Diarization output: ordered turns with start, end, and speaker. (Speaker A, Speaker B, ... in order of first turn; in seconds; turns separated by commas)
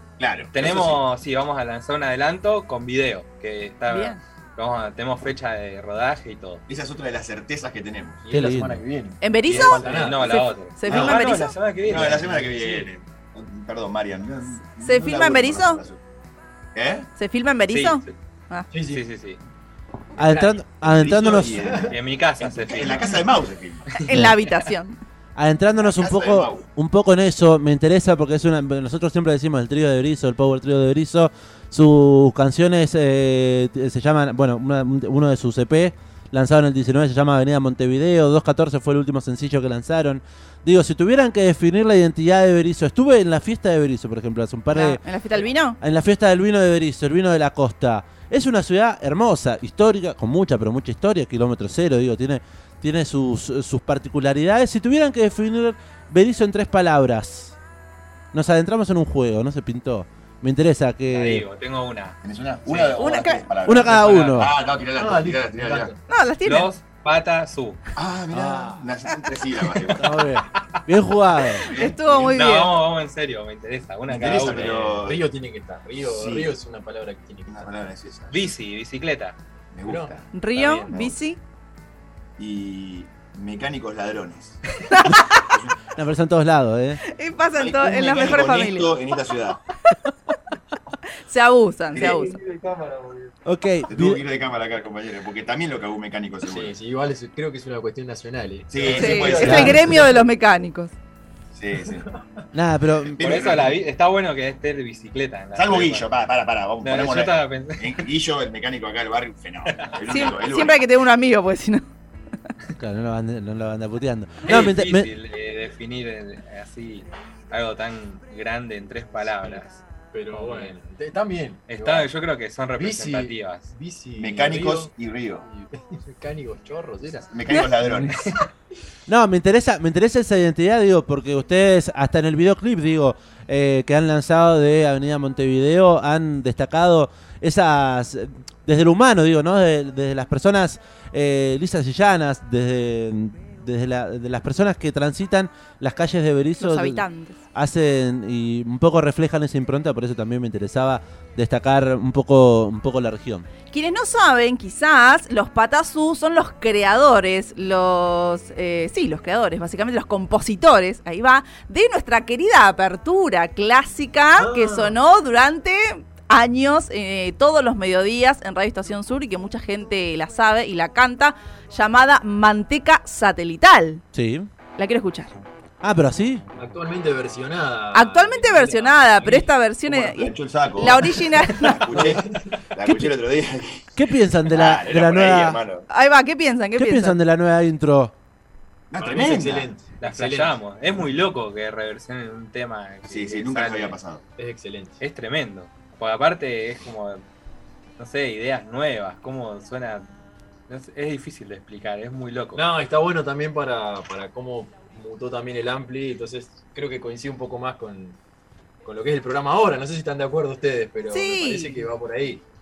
Speaker A: 0.2-1.0, Speaker B: 0.5-6.6, Speaker C: 3.9-4.2, Speaker A: 6.7-8.2, Speaker D: 8.2-11.3, Speaker E: 8.3-8.8, Speaker C: 9.2-11.6, Speaker B: 9.4-12.2, Speaker A: 11.8-16.0, Speaker D: 11.9-12.9, Speaker C: 14.8-15.8, Speaker A: 16.7-17.1, Speaker C: 17.2-18.7, Speaker B: 17.7-18.1, Speaker D: 18.7-19.0, Speaker B: 18.9-19.4, Speaker D: 20.2-20.6, Speaker E: 20.2-21.8, Speaker A: 20.8-24.0, Speaker D: 21.5-21.9, Speaker B: 21.9-23.1, Speaker D: 22.9-23.3, Speaker C: 24.1-24.9, Speaker E: 25.4-45.0, Speaker A: 25.8-26.6, Speaker C: 44.7-45.8, Speaker E: 45.8-57.5, Speaker E: 58.3-61.4, Speaker B: 61.1-63.1, Speaker A: 62.2-65.9, Speaker C: 63.0-63.4, Speaker E: 63.6-64.5, Speaker B: 63.7-64.5, Speaker D: 65.0-66.0, Speaker C: 66.1-66.7, Speaker B: 66.4-67.8, Speaker A: 68.0-70.2, Speaker E: 68.3-68.8, Speaker E: 70.0-71.7, Speaker A: 71.6-72.4, Speaker C: 71.7-72.8, Speaker B: 72.3-74.8, Speaker A: 74.1-75.2, Speaker D: 74.1-77.7, Speaker A: 76.0-76.5, Speaker A: 77.5-78.5, Speaker B: 78.3-79.3, Speaker A: 79.7-80.2, Speaker D: 79.8-80.2, Speaker C: 80.3-81.4, Speaker B: 80.5-81.0, Speaker A: 82.4-84.6, Speaker C: 84.8-85.5, Speaker A: 85.4-85.8, Speaker E: 85.9-87.0, Speaker C: 87.1-88.9, Speaker A: 87.5-89.6, Speaker C: 91.2-92.4, Speaker D: 91.9-93.3, Speaker E: 93.4-94.2, Speaker A: 93.9-96.7, Speaker D: 96.4-100.2, Speaker A: 98.7-100.0, Speaker C: 98.9-100.9, Speaker E: 99.4-99.8, Speaker A: 101.5-102.0, Speaker D: 101.9-102.4, Speaker E: 102.5-103.2, Speaker A: 103.0-103.8, Speaker B: 103.2-106.1, Speaker A: 105.5-110.9, Speaker B: 106.8-108.0, Speaker C: 110.1-111.8, Speaker E: 112.8-115.1, Speaker B: 114.5-120.7, Speaker D: 119.3-122.1, Speaker B: 121.7-123.7, Speaker D: 122.7-128.2, Speaker A: 124.2-125.4, Speaker A: 127.3-128.3, Speaker B: 128.1-128.3, Speaker E: 129.1-153.5, Speaker C: 146.6-147.4, Speaker C: 153.7-174.0, Speaker D: 164.3-164.9, Speaker E: 174.1-174.5, Speaker C: 174.8-175.3, Speaker E: 175.8-176.4, Speaker D: 176.6-179.5, Speaker C: 177.9-182.0, Speaker A: 179.8-183.9, Speaker D: 181.9-182.5, Speaker E: 182.8-183.1, Speaker E: 183.9-185.6, Speaker A: 184.5-185.9, Speaker C: 185.9-187.2, Speaker E: 186.8-188.1, Speaker A: 188.9-189.7, Speaker D: 188.9-190.6, Speaker B: 190.0-194.0, Speaker A: 193.1-194.2, Speaker D: 194.4-195.0, Speaker B: 195.0-197.2, Speaker B: 198.0-200.1, Speaker B: 200.7-202.6, Speaker D: 202.5-208.2, Speaker D: 208.8-212.4, Speaker C: 211.1-211.8